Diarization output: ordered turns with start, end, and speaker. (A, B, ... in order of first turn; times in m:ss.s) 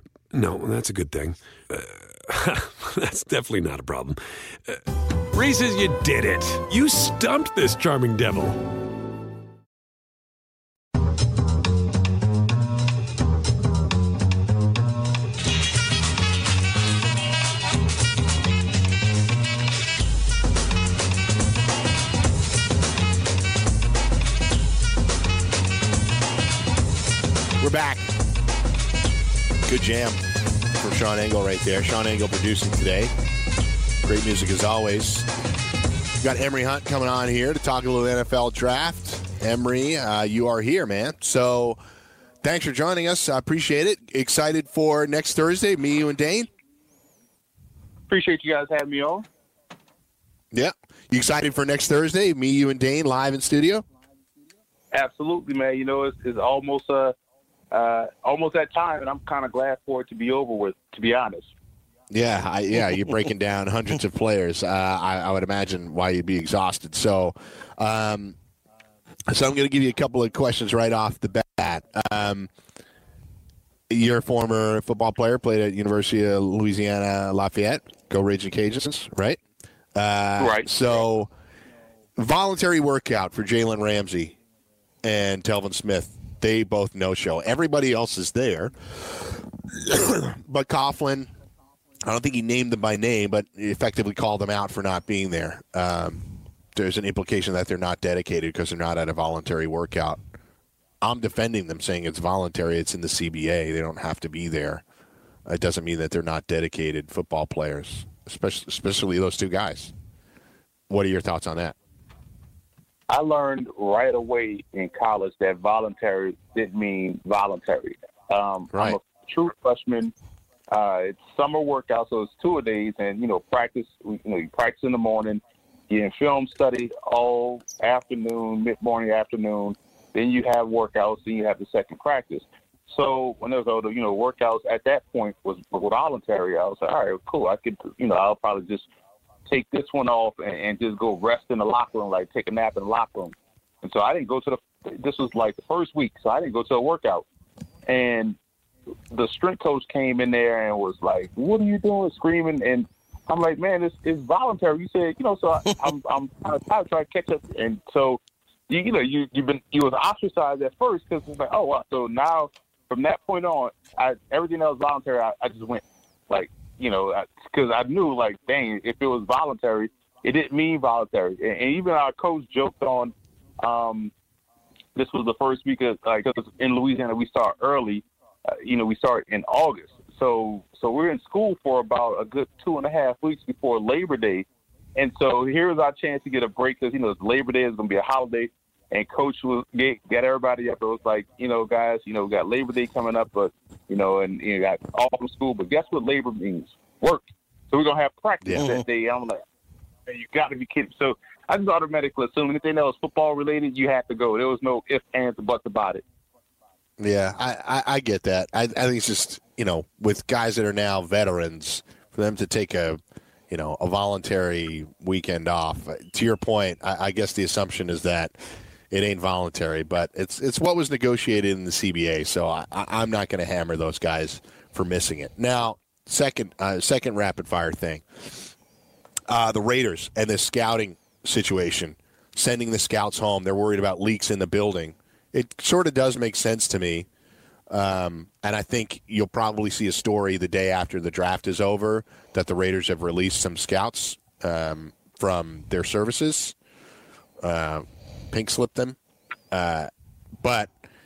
0:00.3-0:08.7 A
0:27.6-0:28.1 B
0:29.7-0:30.2 B
0:30.8-0:33.1 B
0:34.0-0:35.3 B
0:36.2-0:41.8 B
0:42.4-0:46.5 B
0:48.1-0:49.2 C
0:50.5-0:53.8 B
0:54.9-0:57.2 C
0:57.7-1:01.5 C
1:02.1-1:08.4 B
1:09.3-1:12.5 B
1:13.9-1:19.4 B
1:19.9-1:21.3 B
1:20.4-1:21.0 C
1:22.2-1:24.4 B
1:25.0-1:31.3 B
1:32.0-1:36.2 B
1:36.8-1:40.2 B
1:41.0-1:44.8 B
1:45.5-1:49.9 B
1:50.9-1:51.8 B
1:53.1-2:00.1 C
1:58.7-1:59.0 B
2:00.7-2:18.9 C
2:19.5-2:27.3 C
2:27.9-2:28.4 C
2:29.1-2:54.1 C
2:55.0-3:19.4 C
3:20.1-3:26.0 C
3:27.0-3:38.3 B
3:38.9-3:48.4 B
3:49.3-3:57.1 B
3:57.7-4:06.6 B
4:07.4-4:09.0 B
4:09.5-4:09.9 B
4:10.4-4:10.7 B